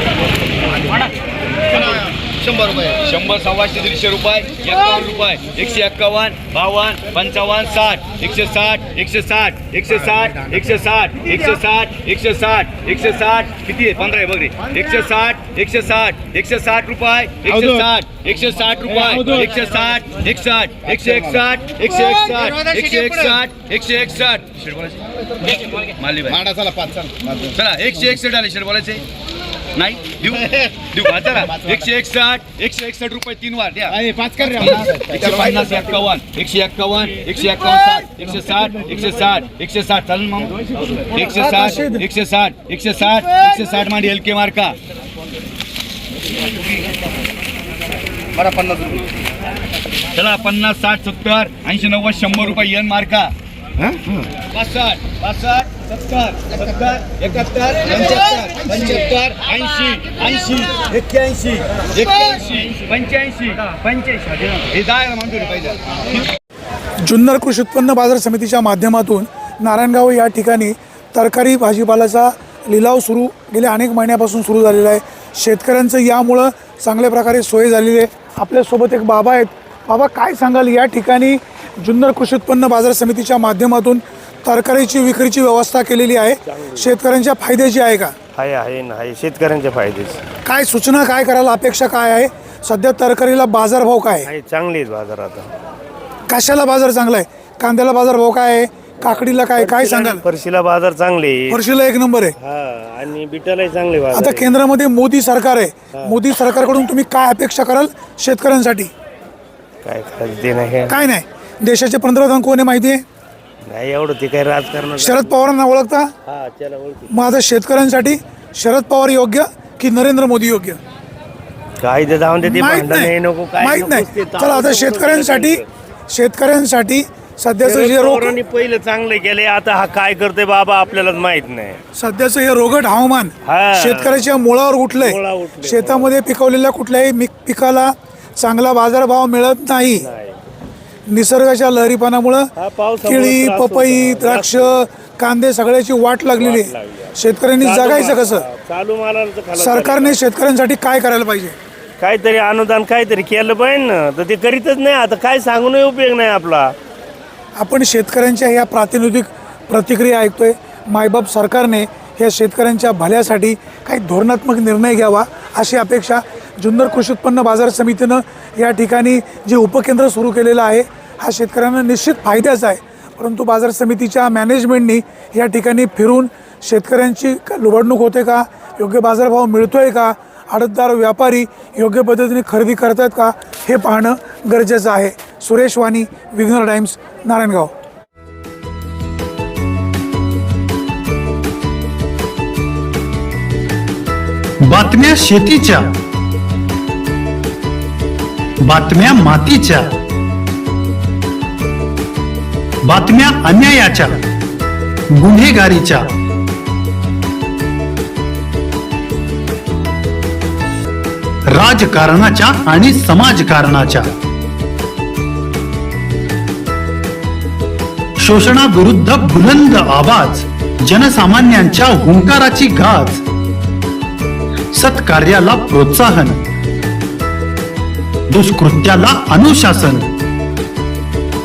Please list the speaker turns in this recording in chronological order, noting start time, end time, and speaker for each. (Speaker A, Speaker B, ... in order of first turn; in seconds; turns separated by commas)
Speaker A: 1.7-26.5, Speaker B: 19.1-19.4, Speaker B: 21.0-21.2, Speaker B: 26.5-27.4, Speaker A: 27.5-29.0, Speaker A: 29.8-44.8, Speaker B: 34.0-35.4, Speaker C: 41.2-42.0, Speaker A: 48.4-48.7, Speaker A: 50.1-66.0, Speaker C: 67.1-88.1, Speaker D: 86.5-86.9, Speaker D: 88.4-90.2, Speaker C: 90.5-94.3, Speaker D: 94.2-95.5, Speaker C: 96.3-100.2, Speaker D: 99.0-101.6, Speaker C: 101.5-102.3, Speaker D: 102.4-104.6, Speaker C: 104.1-108.9, Speaker D: 105.9-106.2, Speaker D: 109.8-111.0, Speaker C: 110.9-113.0, Speaker D: 113.7-115.5, Speaker C: 115.0-116.1, Speaker D: 116.3-117.1, Speaker C: 117.1-120.8, Speaker D: 121.8-125.6, Speaker C: 122.4-128.4, Speaker D: 127.6-131.8, Speaker C: 132.0-140.1, Speaker D: 133.4-134.3, Speaker D: 134.9-136.2, Speaker D: 139.9-140.4, Speaker C: 141.1-142.5, Speaker D: 142.6-145.0, Speaker C: 143.1-148.5, Speaker D: 146.3-150.2, Speaker C: 149.6-151.6, Speaker D: 152.0-156.8, Speaker C: 157.6-187.7, Speaker E: 194.6-195.9, Speaker E: 198.6-199.9, Speaker E: 202.8-204.2, Speaker E: 205.1-206.1, Speaker E: 211.6-214.1, Speaker E: 218.2-223.2, Speaker E: 224.7-226.4, Speaker E: 228.3-230.1